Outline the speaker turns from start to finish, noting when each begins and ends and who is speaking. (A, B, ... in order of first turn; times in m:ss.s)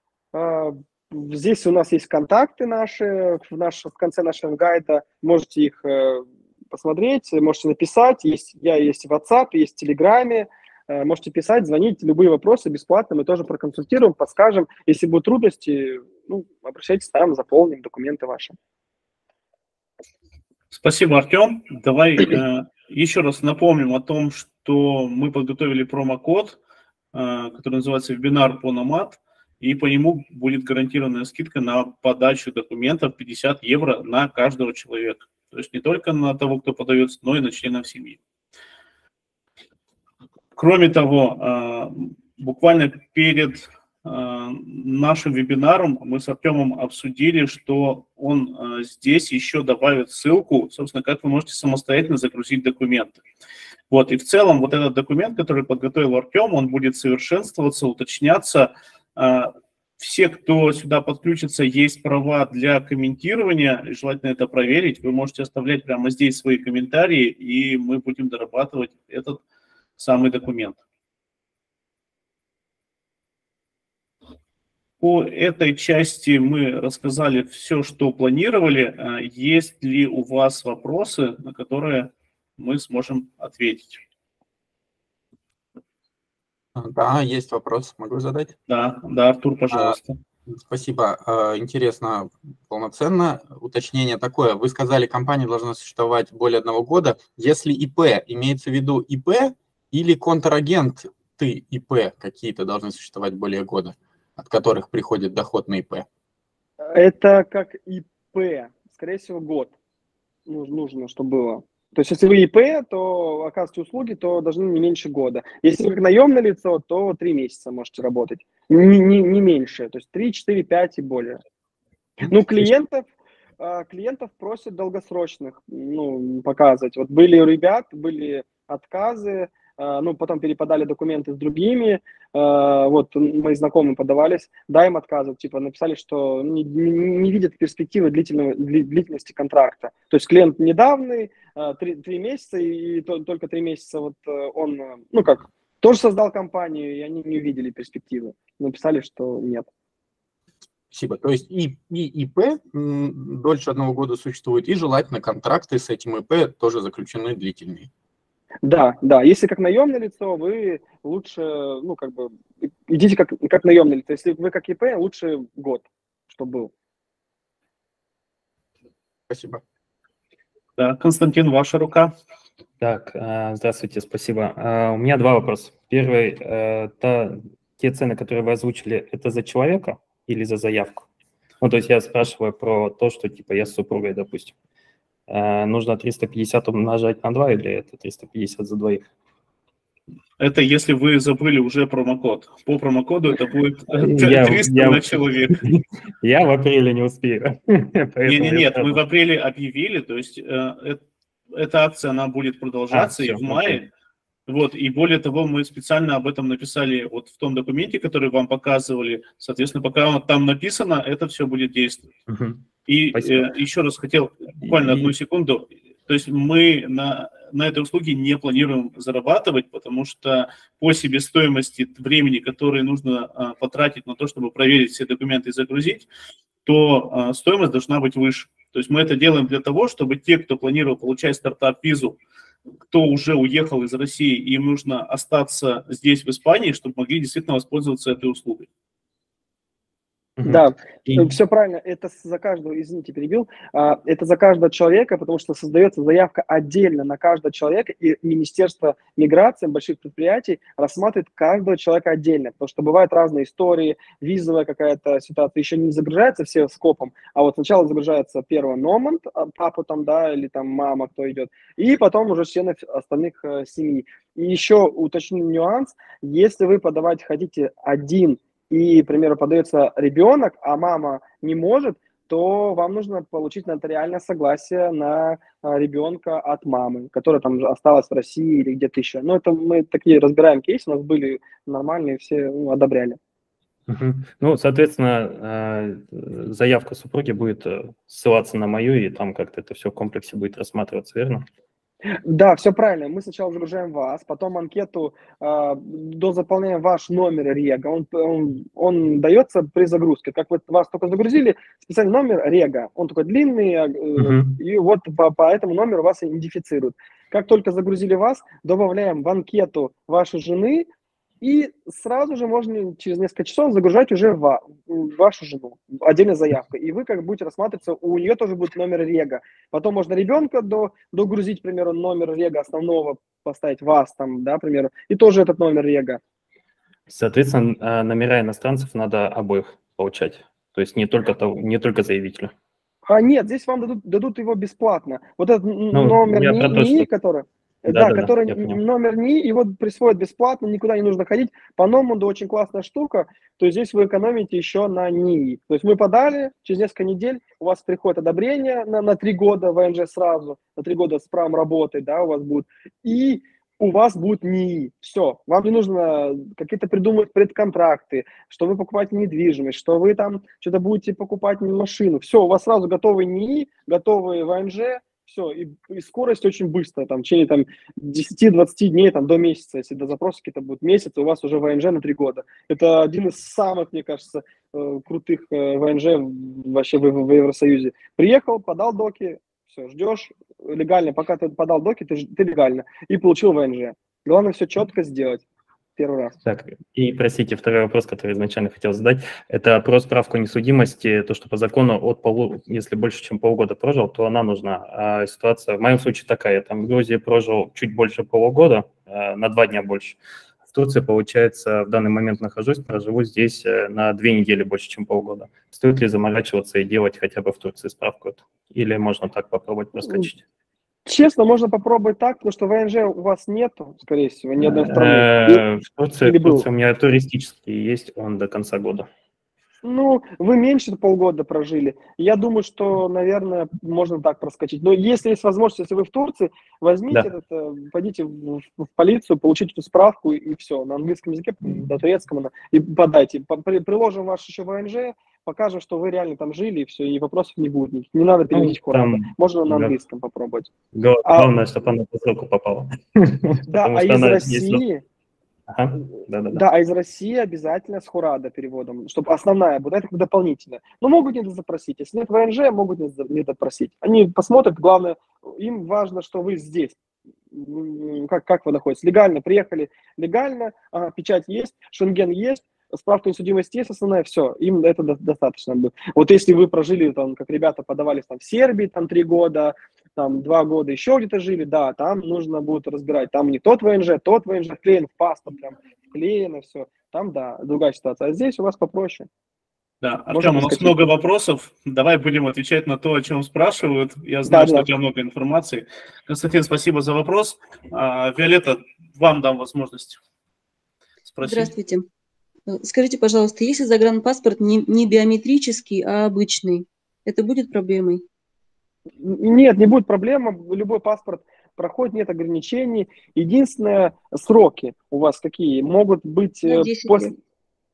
0:00.3-0:18.5 A
0:20.7-0:26.6 B
0:27.1-0:38.2 B
0:40.5-0:53.2 B
0:53.9-1:09.4 B
1:10.0-1:10.8 B
1:15.0-1:24.0 B
1:26.8-1:28.5 C
1:28.7-1:30.2 B
1:30.5-1:46.0 C
1:46.8-1:49.7 A
1:50.5-2:01.4 A
2:02.2-2:03.0 A
2:03.6-2:29.7 A
2:30.9-2:37.9 C
2:38.6-2:46.7 A
2:49.3-2:49.6 C
2:50.8-2:52.1 B
2:52.8-3:01.0 D
3:01.6-3:04.5 D
3:05.3-3:09.0 D
3:10.4-3:15.6 B
3:14.0-3:19.0 D
3:18.2-3:23.9 B
3:22.9-3:23.8 D
3:24.5-3:32.1 B
3:32.3-3:32.6 D
3:32.9-3:46.1 B
3:33.1-3:33.5 D
3:34.6-3:35.1 D
3:46.6-3:52.2 B
3:52.9-3:58.7 B
4:00.4-4:01.3 D
4:00.4-4:43.2 A
4:43.9-4:51.4 D
4:52.2-5:10.9 A
5:04.2-5:04.6 D
5:11.4-5:26.2 A
5:27.1-5:32.5 D
5:33.1-6:25.4 A
5:35.9-5:37.1 D
5:37.9-5:38.8 D
6:26.0-6:26.3 A
6:26.4-6:50.4 D
6:51.0-6:55.6 A
6:54.6-6:59.1 D
6:56.2-6:56.6 A
6:59.8-7:20.7 A
7:18.5-7:19.9 D
7:20.9-7:24.8 D
7:21.2-7:21.5 A
7:23.7-7:25.0 A
7:25.7-7:26.6 D
7:26.5-7:37.0 A
7:37.5-7:59.3 A
8:00.0-8:10.2 B
8:00.3-8:01.1 A
8:04.5-8:04.9 A
8:11.2-8:11.7 B
8:11.4-8:12.0 E
8:12.7-8:18.2 E
8:19.2-8:27.3 A
8:26.6-8:27.3 E